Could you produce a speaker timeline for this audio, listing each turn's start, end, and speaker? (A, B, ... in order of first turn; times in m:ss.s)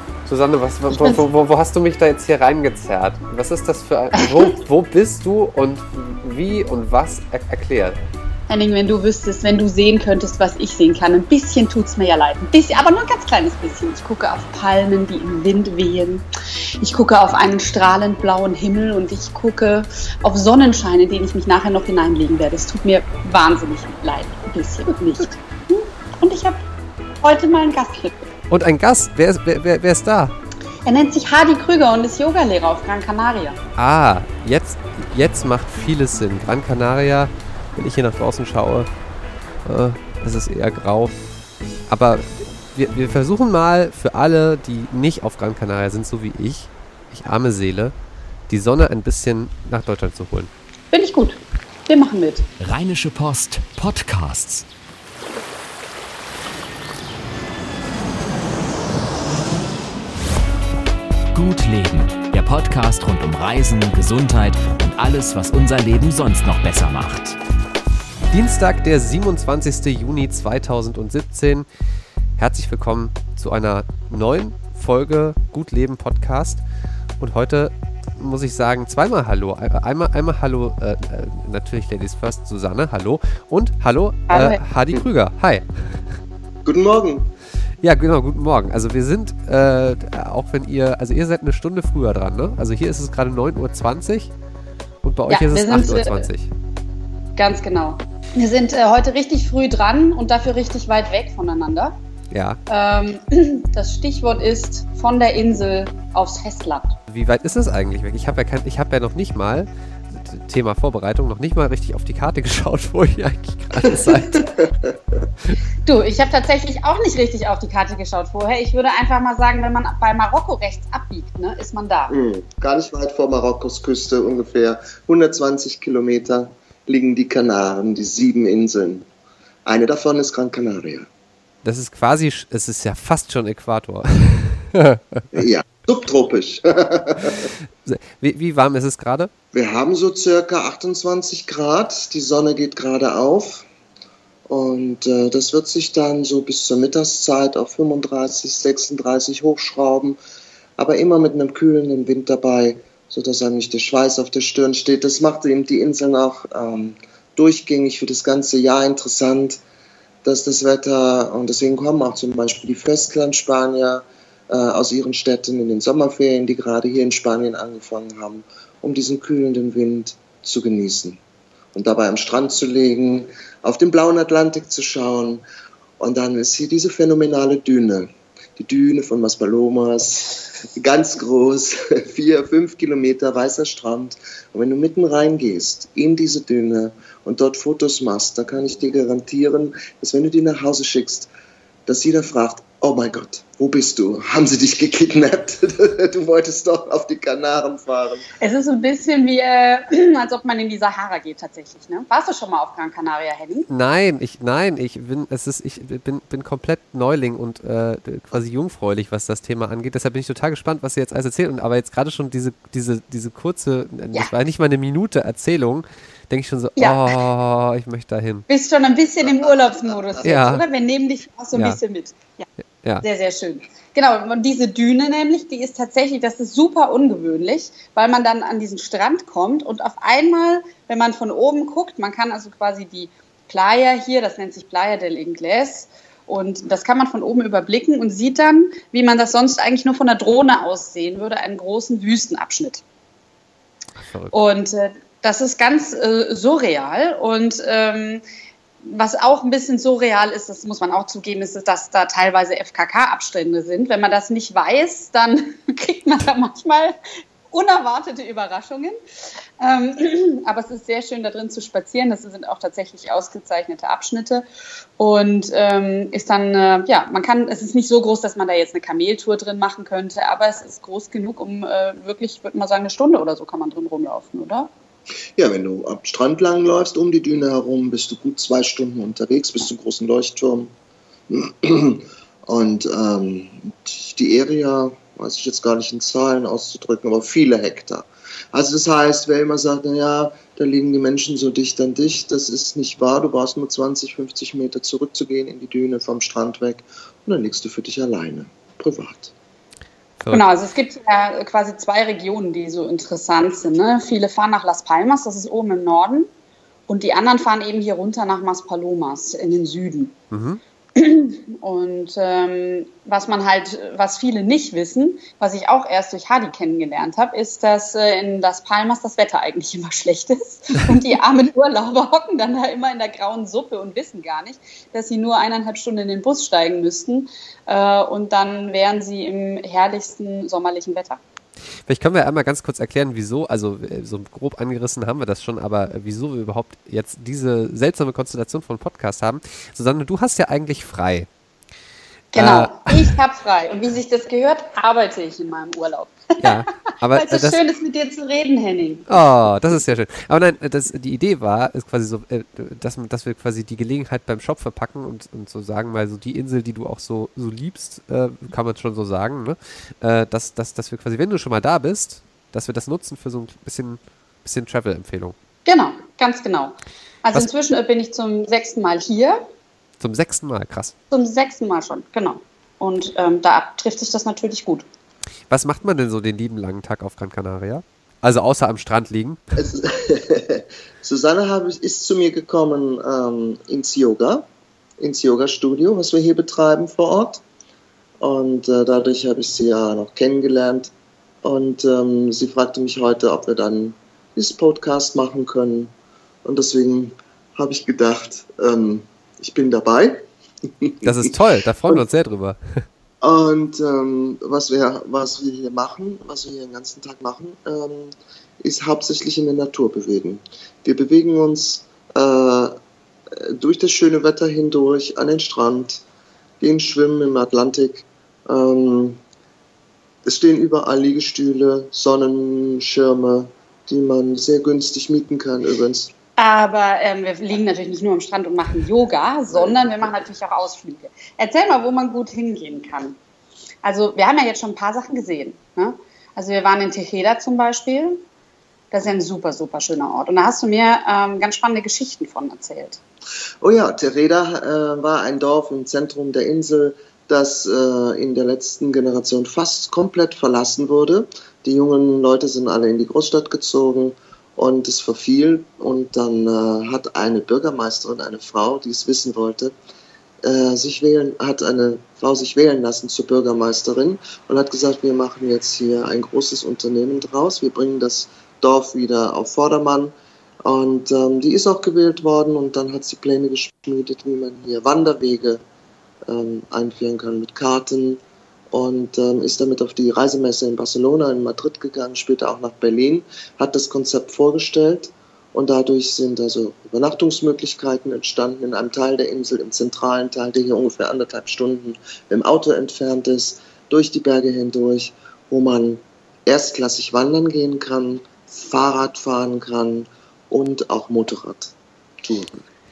0:00.3-0:08.0 A
0:00.9-0:01.2 B
0:04.2-0:04.5 B
0:08.5-0:16.3 B
0:16.8-0:26.6 B
0:27.2-0:28.1 B
0:28.5-0:30.3 A
0:30.9-0:33.6 B
0:33.8-0:38.9 A
0:39.6-0:41.1 A
0:41.9-0:47.9 A
0:48.5-0:50.5 A
0:50.9-0:52.5 B
0:52.6-0:54.6 C
1:01.3-1:07.4 C
1:08.3-1:11.7 A
1:12.4-1:16.6 A
1:17.2-1:26.1 A
1:24.3-1:24.6 B
1:26.6-1:27.3 D
1:27.8-1:34.3 A
1:35.0-1:36.5 A
1:35.3-1:36.3 B
1:37.4-1:42.0 B
1:42.3-1:42.6 A
1:42.7-1:47.0 B
1:47.1-1:54.5 A
1:53.9-1:55.2 D
1:55.8-2:02.2 B
2:02.1-2:09.1 D
2:09.6-2:11.1 D
2:11.6-2:15.4 A
2:15.3-2:17.5 D
2:17.8-2:19.3 A
2:19.5-2:23.7 D
2:24.5-2:30.2 D
2:30.8-2:39.6 D
2:40.2-2:51.2 D
2:51.7-2:55.4 D
2:56.0-3:11.3 D
3:11.9-3:18.3 D
3:18.4-3:23.7 B
3:23.7-3:38.5 A
3:36.8-3:37.1 B
3:38.5-3:42.5 B
3:40.2-3:40.6 A
3:41.5-3:41.8 A
3:43.0-4:02.8 B
4:04.0-4:04.4 A
4:04.3-4:08.2 B
4:08.8-4:17.0 B
4:17.5-4:19.0 B
4:19.6-4:24.4 B
4:25.0-4:34.7 B
4:35.4-4:40.7 D
4:41.3-4:59.3 D
5:00.2-5:00.5 A
5:00.3-5:06.3 B
5:06.9-5:10.1 B
5:10.3-5:10.6 A
5:11.0-5:31.2 B
5:31.9-5:41.3 A
5:42.3-5:49.2 B
5:42.3-5:43.1 A
5:46.4-5:47.6 A
5:49.1-6:05.4 A
6:05.7-6:09.4 B
6:10.0-6:10.9 A
6:11.1-6:14.8 B
6:15.5-6:19.4 A
6:19.6-6:24.5 D
6:25.0-6:27.4 D
6:28.2-6:30.9 D
6:31.4-6:35.9 D
6:36.4-6:41.3 D
6:41.0-6:42.8 A
6:43.2-6:52.8 D
6:53.3-6:56.0 D
6:56.6-6:59.2 D
7:00.2-7:06.1 D
7:06.4-7:13.2 B
7:13.8-7:18.2 B
7:18.9-7:23.0 B
7:23.6-7:39.7 D
7:40.4-7:50.1 D
7:50.6-7:55.6 D
7:56.3-8:22.6 D